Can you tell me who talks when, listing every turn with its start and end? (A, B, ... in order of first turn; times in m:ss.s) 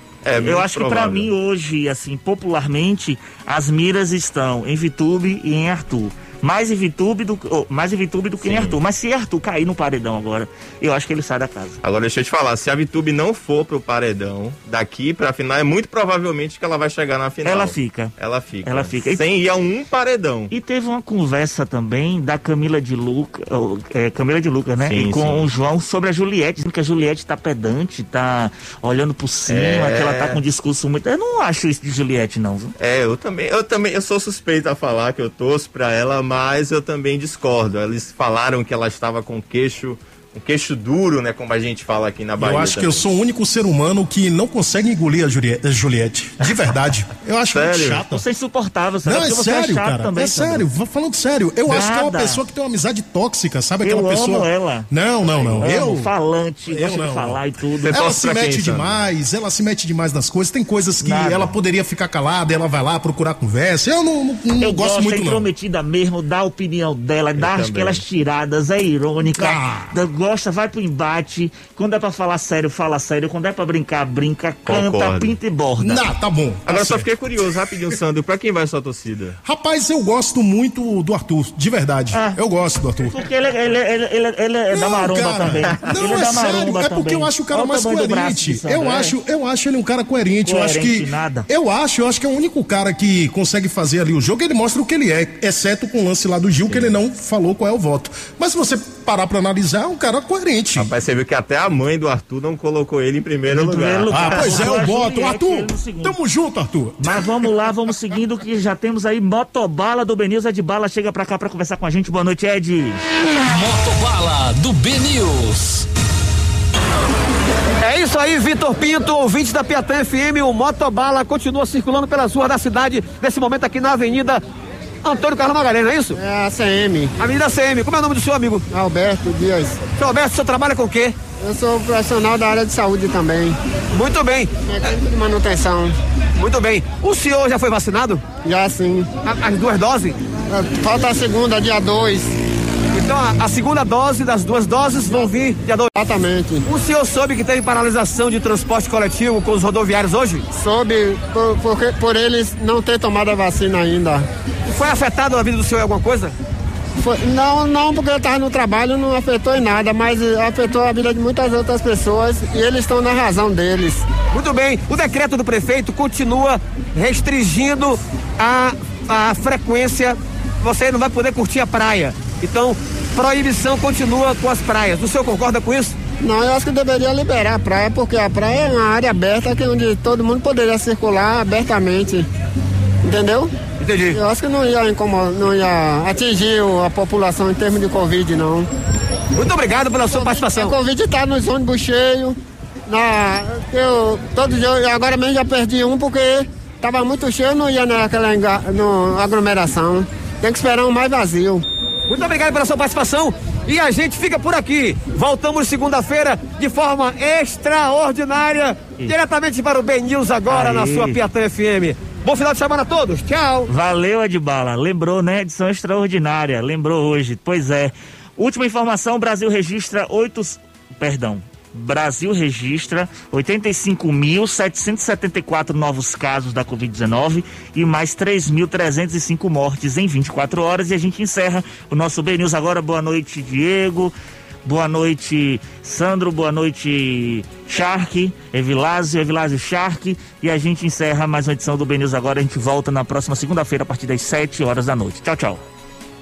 0:00.2-0:01.3 A
0:00.4-0:11.8 B
0:08.4-0:08.8 A
0:11.8-0:20.5 A
0:17.4-0:19.2 B
0:20.5-0:32.7 B
0:24.8-0:25.5 A
0:29.5-0:30.4 A
0:32.8-0:43.0 A
0:42.4-0:48.2 C
0:47.5-0:48.0 A
0:48.1-0:50.7 B
0:49.0-0:56.1 C
0:51.6-0:52.4 B
0:53.8-0:54.9 B
0:55.2-0:55.7 A
0:55.6-0:58.6 B
0:56.7-1:05.4 C
0:57.9-0:59.1 A
1:01.0-1:01.5 B
1:04.6-1:16.0 B
1:07.4-1:08.0 A
1:09.4-1:09.9 C
1:14.6-1:15.4 A
1:15.8-1:17.0 C
1:16.7-1:19.4 A
1:19.4-1:23.2 C
1:22.1-1:22.4 B
1:23.0-1:29.2 B
1:24.7-1:40.9 C
1:30.4-1:31.5 B
1:36.7-1:37.0 A
1:40.8-1:44.9 A
1:43.5-1:46.2 B
1:44.1-1:47.2 C
1:47.0-1:53.0 B
1:53.4-1:55.9 D
1:57.8-2:04.4 E
2:05.0-2:06.2 E
2:06.1-2:07.1 F
2:07.2-2:08.6 E
2:08.7-2:09.8 F
2:10.0-2:11.1 E
2:11.4-2:13.6 F
2:13.9-2:14.5 E
2:14.7-2:16.0 F
2:16.3-2:18.2 E
2:18.4-2:19.1 F
2:19.2-2:20.2 E
2:20.5-2:22.3 F
2:22.9-2:25.9 E
2:26.0-2:26.6 F
2:26.6-2:30.4 E
2:30.5-2:34.2 F
2:34.6-2:36.3 E
2:37.0-2:44.1 F
2:44.3-2:56.0 E
2:56.2-3:02.2 F
3:03.0-3:03.5 F
3:03.8-3:04.2 E
3:04.1-3:08.7 F
3:09.3-3:10.7 E
3:10.1-3:21.6 F
3:22.1-3:33.7 E
3:30.5-3:31.2 B
3:33.7-3:54.1 B
3:54.6-4:05.6 B